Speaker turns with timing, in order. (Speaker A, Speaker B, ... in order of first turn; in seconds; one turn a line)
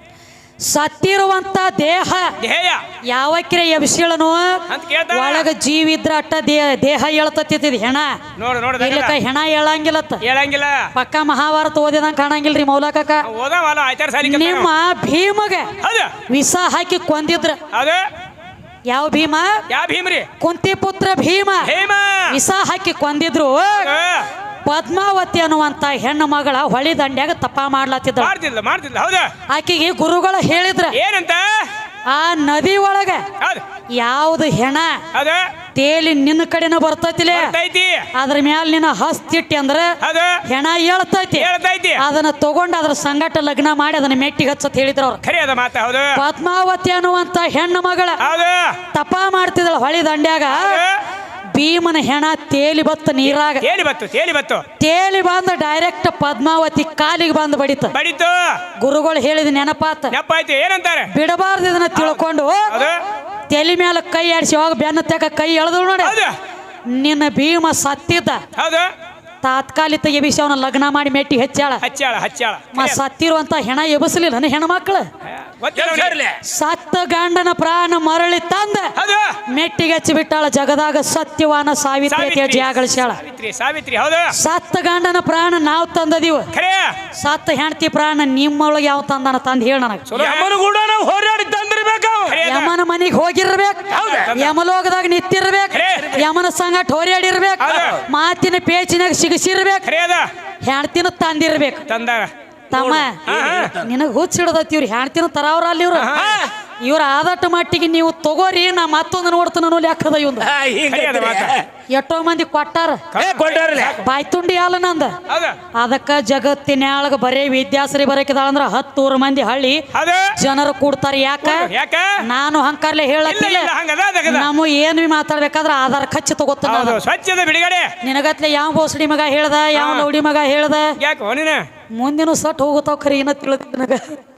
Speaker A: 0.6-2.3
Speaker B: 2.4-2.8
Speaker A: 3.1-8.2
Speaker B: 4.7-5.5
Speaker B: 8.4-9.2
Speaker A: 8.8-10.2
Speaker B: 10.2-10.9
Speaker A: 10.9-13.2
Speaker B: 13.2-14.7
Speaker A: 14.2-15.7
Speaker B: 15.8-16.1
Speaker A: 16.3-17.6
Speaker B: 17.7-18.1
Speaker A: 18.9-19.6
Speaker B: 19.7-20.3
Speaker A: 20.4-21.7
Speaker B: 21.6-22.4
Speaker A: 22.3-23.9
Speaker B: 23.8-24.3
Speaker A: 24.6-28.3
Speaker B: 28.2-29.3
Speaker A: 29.5-31.0
Speaker B: 30.9-31.7
Speaker A: 32.1-33.2
Speaker A: 33.9-35.0
Speaker B: 35.1-35.5
Speaker A: 35.8-37.5
Speaker B: 37.3-38.1
Speaker A: 38.1-45.2
Speaker B: 40.0-40.4
Speaker B: 41.4-42.0
Speaker B: 45.2-46.2
Speaker A: 46.1-48.2
Speaker B: 48.2-48.8
Speaker A: 48.9-50.8
Speaker B: 50.5-51.0
Speaker A: 51.5-53.6
Speaker B: 53.3-54.6
Speaker A: 54.8-57.9
Speaker B: 57.9-58.6
Speaker A: 58.8-60.1
Speaker B: 60.1-61.1
Speaker A: 61.1-62.7
Speaker B: 61.9-63.0
Speaker A: 63.5-66.2
Speaker B: 66.0-66.3
Speaker A: 66.9-68.4
Speaker B: 68.5-68.9
Speaker A: 69.4-71.8
Speaker B: 71.8-73.0
Speaker A: 72.7-75.1
Speaker B: 75.3-76.2
Speaker C: 75.7-76.4
Speaker A: 76.4-78.9
Speaker B: 79.0-79.4
Speaker A: 79.5-83.2
Speaker B: 82.1-84.3
Speaker A: 84.3-86.5
Speaker B: 86.5-87.0
Speaker A: 87.1-90.1
Speaker B: 90.1-90.5
Speaker C: 90.1-92.4
Speaker B: 92.2-92.7
Speaker A: 92.4-99.8
Speaker C: 93.9-94.3
Speaker B: 94.0-94.5
Speaker B: 95.7-96.2
Speaker B: 97.6-98.0
Speaker B: 99.8-100.3
Speaker A: 100.6-101.8
Speaker B: 101.9-102.3
Speaker A: 102.7-106.1
Speaker C: 102.7-103.9
Speaker B: 103.2-103.7
Speaker B: 105.9-106.5
Speaker C: 106.1-106.5
Speaker A: 106.8-110.5
Speaker C: 110.4-111.7
Speaker B: 110.9-111.6
Speaker A: 111.9-113.0
Speaker B: 113.1-114.0
Speaker C: 113.2-114.0
Speaker A: 114.0-115.2
Speaker B: 115.3-115.6
Speaker A: 115.7-119.8
Speaker B: 119.9-120.3
Speaker A: 120.4-121.7
Speaker B: 121.4-122.2
Speaker A: 122.2-123.7
Speaker B: 123.2-124.5
Speaker A: 124.2-127.0
Speaker B: 126.6-127.9
Speaker A: 128.0-130.9
Speaker B: 129.7-130.1
Speaker B: 131.0-131.6
Speaker A: 131.9-134.2